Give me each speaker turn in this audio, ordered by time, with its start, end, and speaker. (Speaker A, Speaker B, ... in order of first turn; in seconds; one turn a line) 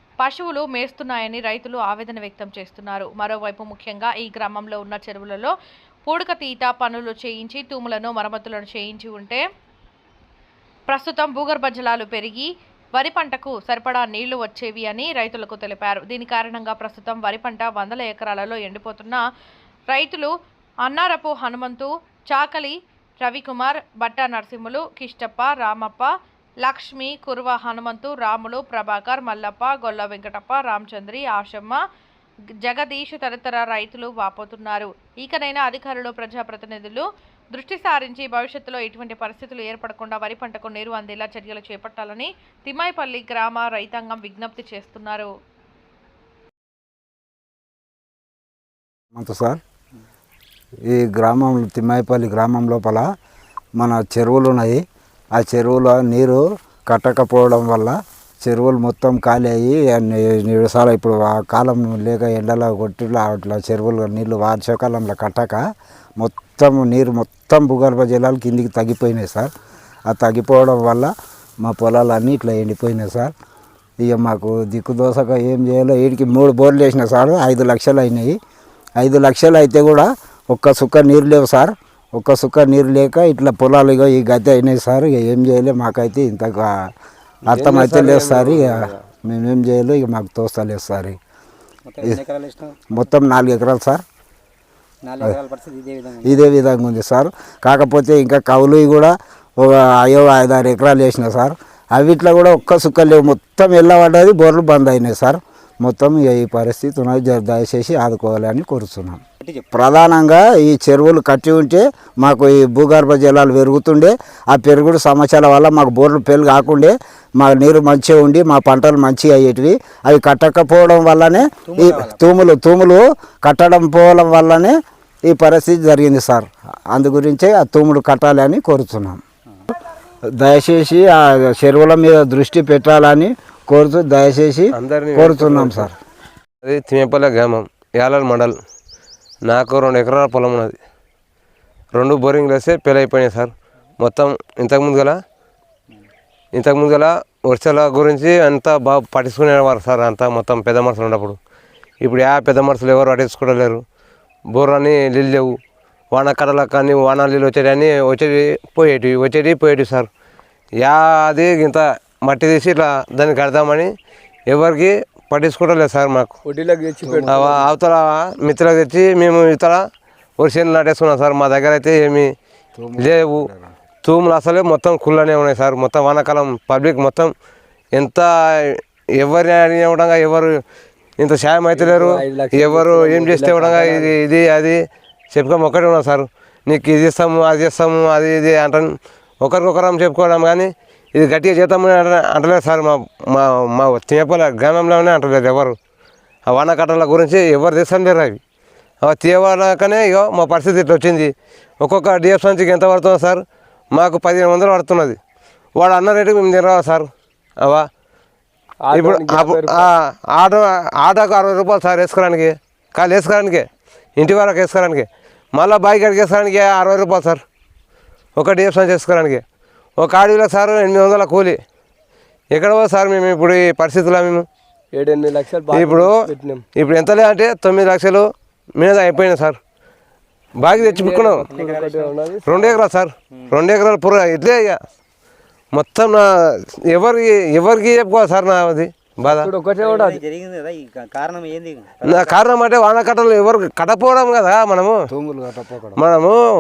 Speaker A: 0.2-5.5
Speaker A: 6.1-9.4
Speaker A: 10.9-19.2
Speaker A: 19.9-20.3
Speaker A: 20.8-26.1
Speaker A: 26.6-31.8
Speaker A: 32.6-45.3
Speaker B: 49.1-49.6
Speaker B: 50.9-53.1
Speaker B: 53.8-54.8
Speaker B: 55.4-65.6
Speaker B: 66.2-69.5
Speaker B: 70.1-73.3
Speaker B: 74.0-78.4
Speaker B: 79.0-86.9
Speaker B: 87.5-91.2
Speaker C: 87.5-89.0
Speaker D: 91.9-93.0
Speaker B: 92.9-94.0
Speaker D: 95.0-96.4
Speaker B: 96.2-124.8
Speaker D: 109.4-109.7
Speaker D: 121.7-122.3
Speaker B: 125.3-129.2
Speaker B: 130.4-135.9
Speaker E: 134.8-135.9
Speaker E: 136.6-138.6
Speaker E: 139.5-140.8
Speaker E: 141.9-145.2
Speaker E: 146.6-151.4
Speaker E: 152.0-153.8
Speaker E: 154.5-155.6
Speaker E: 156.1-160.1
Speaker E: 160.8-163.9
Speaker E: 164.5-166.3
Speaker C: 166.4-167.5
Speaker B: 167.0-167.6
Speaker E: 167.3-169.8
Speaker E: 170.4-172.3
Speaker B: 172.8-173.7
Speaker E: 173.0-173.5
Speaker E: 174.0-177.3
Speaker E: 177.9-180.6
Speaker E: 181.2-184.8
Speaker C: 181.7-184.2
Speaker E: 185.3-188.9
Speaker E: 189.4-195.8
Speaker E: 196.5-198.4
Speaker E: 199.0-203.4
Speaker E: 203.9-205.2
Speaker E: 205.8-207.1
Speaker C: 208.8-209.9
Speaker E: 208.9-217.4
Speaker E: 218.4-219.4
Speaker E: 220.0-221.6
Speaker E: 222.5-224.5
Speaker C: 224.9-226.6
Speaker E: 225.7-226.2
Speaker E: 226.8-228.3
Speaker E: 228.8-229.6
Speaker E: 230.6-231.5
Speaker C: 230.7-232.7
Speaker D: 231.5-233.6
Speaker E: 232.5-234.8
Speaker E: 235.7-236.2
Speaker E: 236.9-239.5
Speaker C: 239.2-240.2
Speaker D: 239.8-242.4
Speaker E: 242.0-245.0
Speaker B: 245.1-246.0
Speaker E: 246.0-246.4